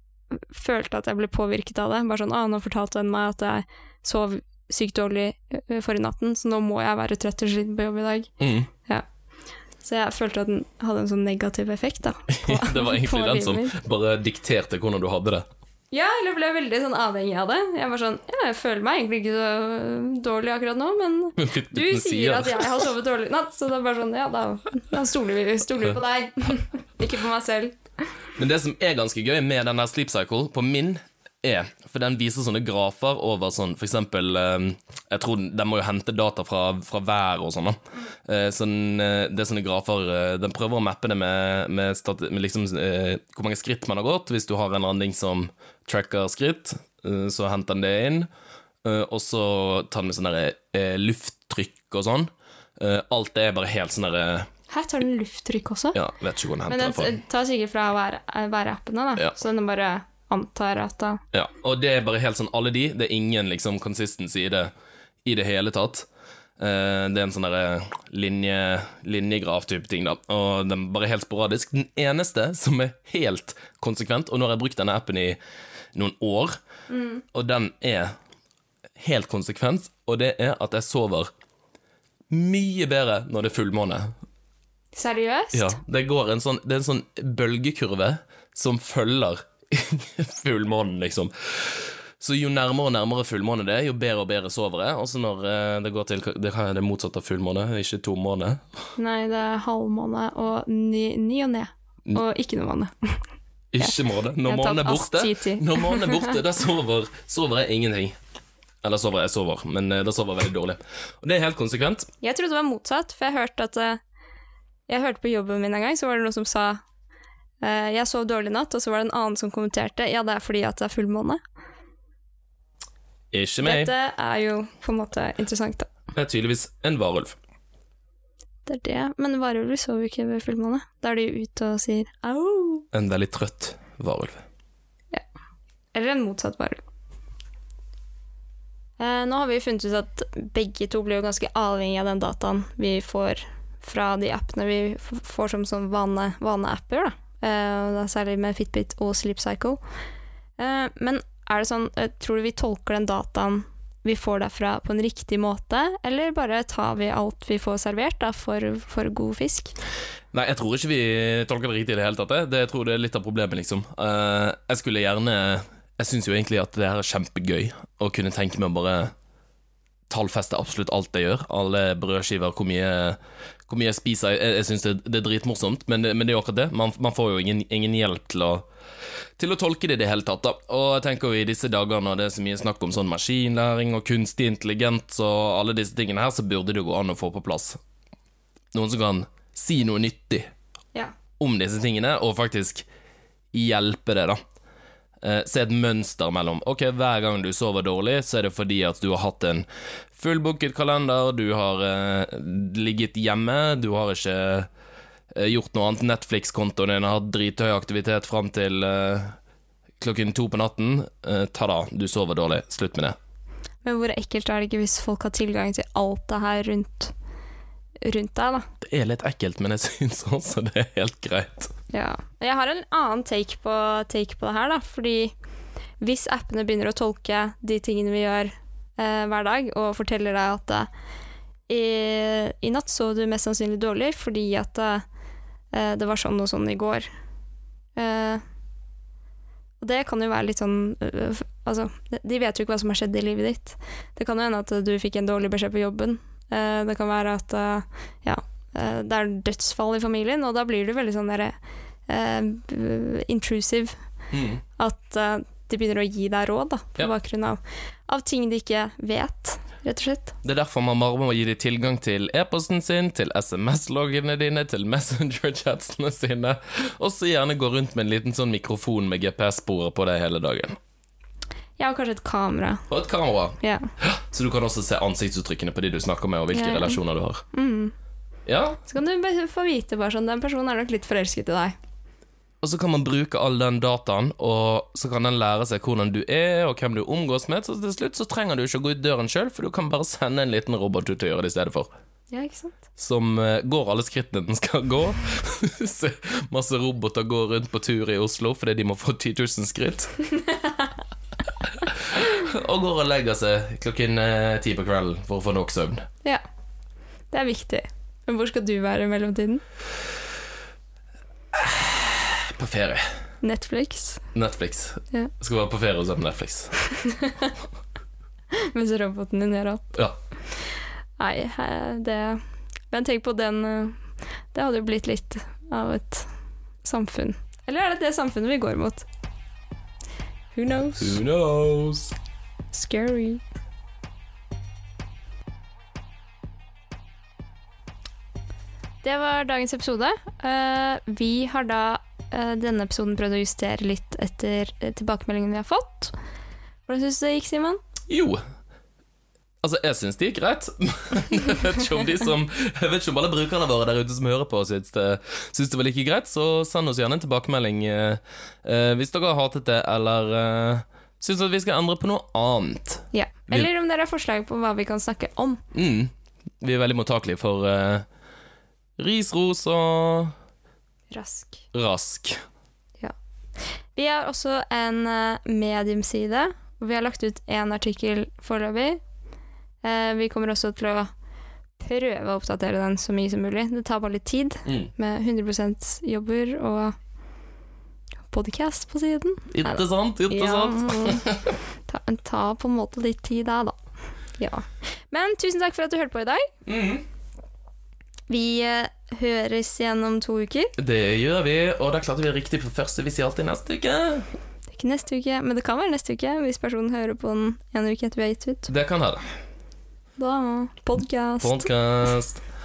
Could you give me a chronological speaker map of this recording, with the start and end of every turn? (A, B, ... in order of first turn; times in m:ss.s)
0:00.3-0:08.3 A
0:08.4-0:08.7 B
0:09.8-0:13.8 A
0:12.3-0:15.4 B
0:15.9-0:28.1 A
0:21.4-0:22.8 B
0:28.4-0:48.3 B
0:48.8-0:54.5 B
0:54.7-0:56.0 A
0:55.9-0:57.2 B
0:56.7-1:01.2 A
1:01.3-1:04.7 B
1:05.2-1:15.4 B
1:15.9-1:16.6 B
1:16.9-1:17.2 A
1:17.3-1:18.1 B
1:19.0-1:21.3 B
1:22.3-1:24.1 B
1:24.9-1:25.8 A
1:25.5-1:38.8 B
1:39.0-1:43.2 A
1:43.7-1:48.1 B
1:43.8-1:46.4 A
1:48.8-1:52.1 B
1:52.2-1:54.0 A
1:54.9-1:56.8 A
1:57.6-2:01.4 A
2:03.3-2:03.9 B
2:03.6-2:05.9 A
2:06.1-2:07.4 B
2:08.6-2:12.9 A
2:12.9-2:14.4 B
2:15.9-2:16.8 A
2:19.0-2:29.8 A
2:30.6-2:39.7 A
2:40.3-2:49.1 B
2:50.1-2:58.6 B
2:59.4-3:07.8 B
3:08.7-3:10.5 B
3:11.4-3:12.8 B
3:13.5-3:14.4 B
3:15.2-3:24.7 B
3:25.3-3:29.4 B
3:30.0-3:33.2 B
3:33.8-3:37.1 A
3:38.0-3:38.7 A
3:38.8-3:41.7 B
3:41.9-3:45.3 A
3:46.0-3:50.9 A
3:51.7-3:55.0 A
3:55.7-3:57.1 A
3:57.9-3:58.4 A
3:59.8-4:11.5 A
4:12.1-4:14.0 A
4:14.3-4:14.6 B
4:14.8-4:20.3 A
4:20.4-4:30.8 B
4:31.8-4:32.9 A
4:32.9-4:37.4 B
4:33.6-4:33.9 A
4:36.5-4:37.0 A
4:37.5-4:37.9 A
4:38.4-4:38.8 B
4:38.9-4:41.8 A
4:42.6-4:51.9 B
4:52.3-4:52.8 A
4:53.0-5:00.1 B
5:00.3-5:00.9 A
5:01.7-5:06.1 B
5:07.3-5:09.6 A
5:11.5-5:13.1 B
5:13.4-5:14.3 A
5:14.3-5:16.7 B
5:16.9-5:17.5 A
5:18.5-5:19.9 A
5:20.5-5:26.3 A
5:26.8-5:29.0 A
5:30.5-5:31.2 A
5:31.0-5:32.1 B
5:32.7-5:33.4 A
5:39.0-5:46.1 A
5:46.9-5:47.8 A
5:48.1-5:48.4 B
5:49.6-6:03.7 B
6:03.1-6:05.6 A
6:05.7-6:08.0 B
6:09.0-6:10.3 B
6:11.1-6:11.6 A
6:11.7-6:12.4 B
6:13.0-6:19.0 A
6:19.8-6:21.1 A
6:21.8-6:27.0 A
6:24.6-6:24.9 B
6:28.3-6:31.2 A
6:29.5-6:31.6 B
6:31.8-6:33.8 A
6:34.4-6:36.5 A
6:36.6-6:37.0 B
6:38.3-6:40.7 A
6:40.8-6:44.3 B
6:44.7-6:48.7 A
6:48.7-6:49.2 B
6:50.2-6:51.7 A
6:51.4-6:52.4 B